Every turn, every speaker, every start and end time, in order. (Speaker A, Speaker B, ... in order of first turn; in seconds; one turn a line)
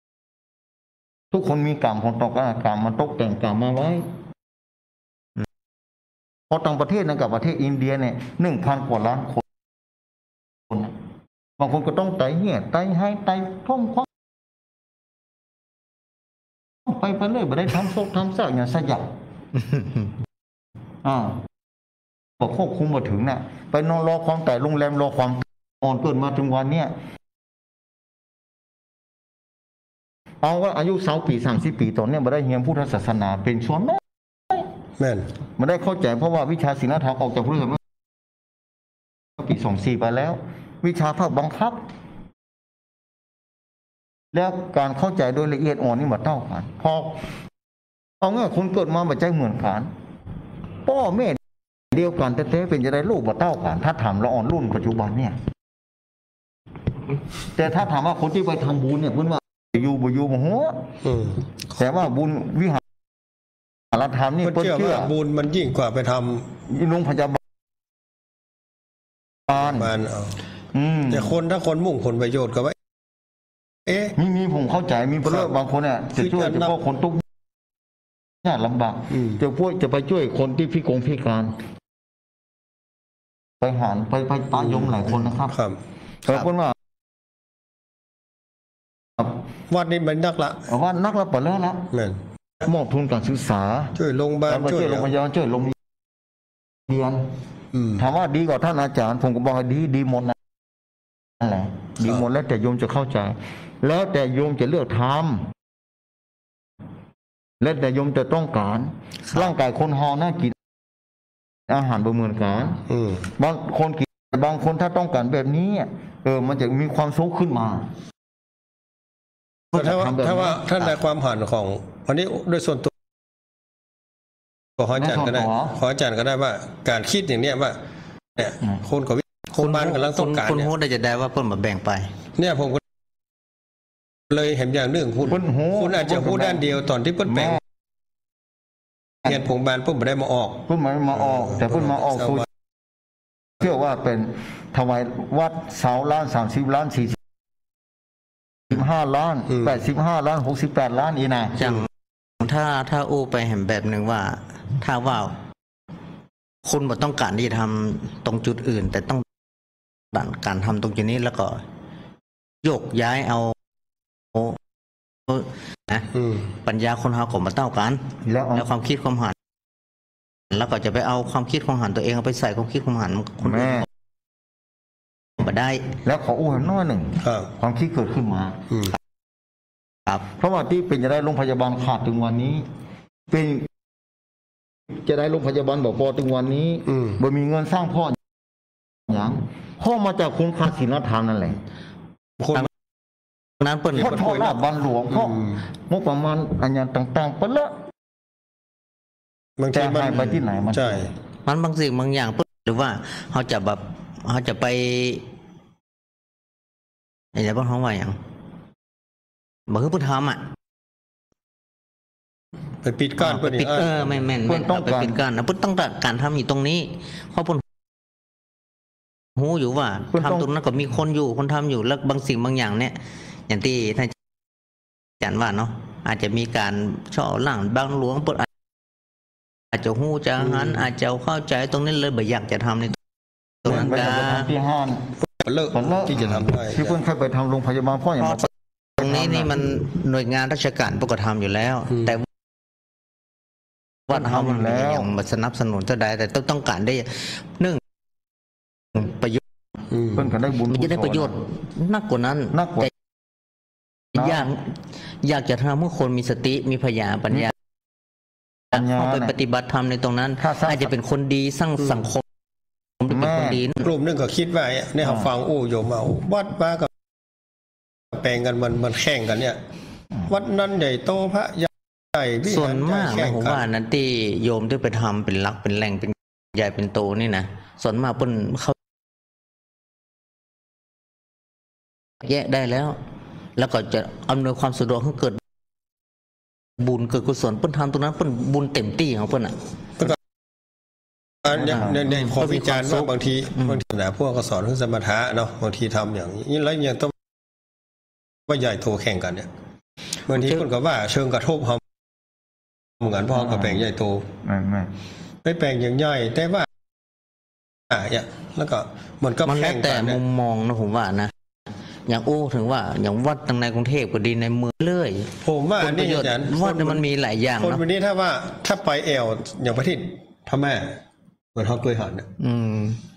Speaker A: 1.3-4.1
Speaker A: 6.5-9.4
Speaker A: 10.7-10.9
Speaker A: 11.6-14.1
Speaker A: 16.9-19.1
Speaker B: 19.6-20.1
Speaker A: 21.0-21.4
Speaker A: 22.4-26.9
Speaker A: 30.4-34.6
Speaker C: 35.0-35.3
Speaker A: 35.6-37.8
Speaker A: 39.4-41.9
Speaker A: 44.3-47.3
Speaker A: 48.2-49.9
Speaker A: 50.9-51.4
Speaker A: 51.9-55.4
Speaker A: 57.5-61.0
Speaker C: 61.0-61.4
Speaker A: 61.8-62.8
Speaker A: 63.9-65.1
Speaker C: 64.4-66.5
Speaker A: 66.7-67.4
Speaker A: 69.5-69.9
Speaker C: 69.5-70.4
Speaker A: 70.7-71.4
Speaker C: 71.1-72.8
Speaker C: 73.9-74.2
Speaker A: 74.2-77.2
Speaker C: 75.2-75.5
Speaker C: 76.2-76.7
Speaker A: 78.4-81.6
Speaker C: 79.1-79.4
Speaker A: 83.6-85.6
Speaker C: 84.6-85.8
Speaker A: 86.2-86.8
Speaker C: 89.7-90.7
Speaker A: 90.7-91.9
Speaker C: 91.9-92.2
Speaker A: 92.6-94.0
Speaker C: 94.0-95.1
Speaker A: 94.5-95.8
Speaker A: 96.9-97.3
Speaker C: 97.7-98.0
Speaker A: 97.9-100.4
Speaker A: 101.4-105.5
Speaker A: 107.6-110.6
Speaker A: 111.7-117.9
Speaker C: 112.9-113.3
Speaker A: 119.7-120.9
Speaker C: 119.8-122.9
Speaker C: 124.8-127.8
Speaker A: 125.0-125.8
Speaker C: 128.3-130.7
Speaker B: 129.6-132.1
Speaker C: 132.4-132.8
Speaker C: 134.3-137.6
Speaker A: 135.3-136.7
Speaker A: 137.3-137.6
Speaker C: 139.2-140.6
Speaker A: 140.7-142.5
Speaker C: 141.3-142.4
Speaker A: 143.6-147.2
Speaker A: 148.7-151.8
Speaker B: 151.6-151.9
Speaker B: 152.4-155.4
Speaker B: 156.7-159.3
Speaker B: 160.1-161.6
Speaker B: 162.6-163.5
Speaker B: 164.3-164.6
Speaker B: 165.3-166.1
Speaker C: 166.1-166.5
Speaker B: 166.6-169.3
Speaker A: 168.2-168.7
Speaker B: 170.5-173.9
Speaker A: 173.4-173.9
Speaker B: 175.4-175.9
Speaker A: 176.0-178.7
Speaker C: 177.2-177.5
Speaker C: 178.7-179.0
Speaker A: 180.3-182.7
Speaker A: 183.3-183.7
Speaker A: 184.9-188.2
Speaker A: 189.1-191.6
Speaker C: 192.4-192.7
Speaker B: 193.6-194.4
Speaker C: 193.9-194.6
Speaker A: 194.0-197.8
Speaker C: 195.1-195.6
Speaker C: 199.6-201.1
Speaker A: 199.7-201.1
Speaker B: 201.5-205.3
Speaker B: 207.3-208.2
Speaker B: 209.7-210.4
Speaker C: 212.8-214.2
Speaker B: 213.2-217.6
Speaker A: 214.5-215.2
Speaker B: 219.3-224.2
Speaker A: 220.1-220.5
Speaker B: 225.2-228.5
Speaker B: 229.7-233.0
Speaker C: 230.4-230.9
Speaker B: 233.6-234.5
Speaker A: 233.7-235.2
Speaker C: 235.4-237.0
Speaker A: 235.7-239.7
Speaker B: 238.2-238.5
Speaker B: 239.0-242.3
Speaker B: 244.1-247.8
Speaker A: 244.1-245.1
Speaker B: 248.9-249.4
Speaker C: 249.9-250.2
Speaker A: 250.1-251.4
Speaker B: 250.7-252.9
Speaker A: 252.5-252.9
Speaker B: 254.2-257.5
Speaker A: 254.2-254.5
Speaker A: 258.7-259.4
Speaker B: 258.7-262.2
Speaker A: 260.4-260.9
Speaker B: 263.0-263.9
Speaker A: 263.1-263.6
Speaker C: 263.8-266.9
Speaker C: 268.1-269.6
Speaker C: 270.3-273.6
Speaker B: 272.5-278.8
Speaker B: 282.2-283.0
Speaker B: 283.6-285.4
Speaker B: 286.8-290.1
Speaker C: 291.4-297.1
Speaker A: 291.6-292.1
Speaker B: 291.6-293.8
Speaker C: 298.5-299.5
Speaker C: 300.2-301.8
Speaker B: 300.4-300.6
Speaker C: 303.0-304.3
Speaker A: 303.4-303.9
Speaker A: 304.4-304.9
Speaker C: 305.4-306.7
Speaker C: 307.9-310.2
Speaker B: 309.4-311.3
Speaker B: 312.1-317.8
Speaker C: 315.4-317.1
Speaker C: 317.6-321.0
Speaker C: 321.6-322.3
Speaker B: 322.4-323.0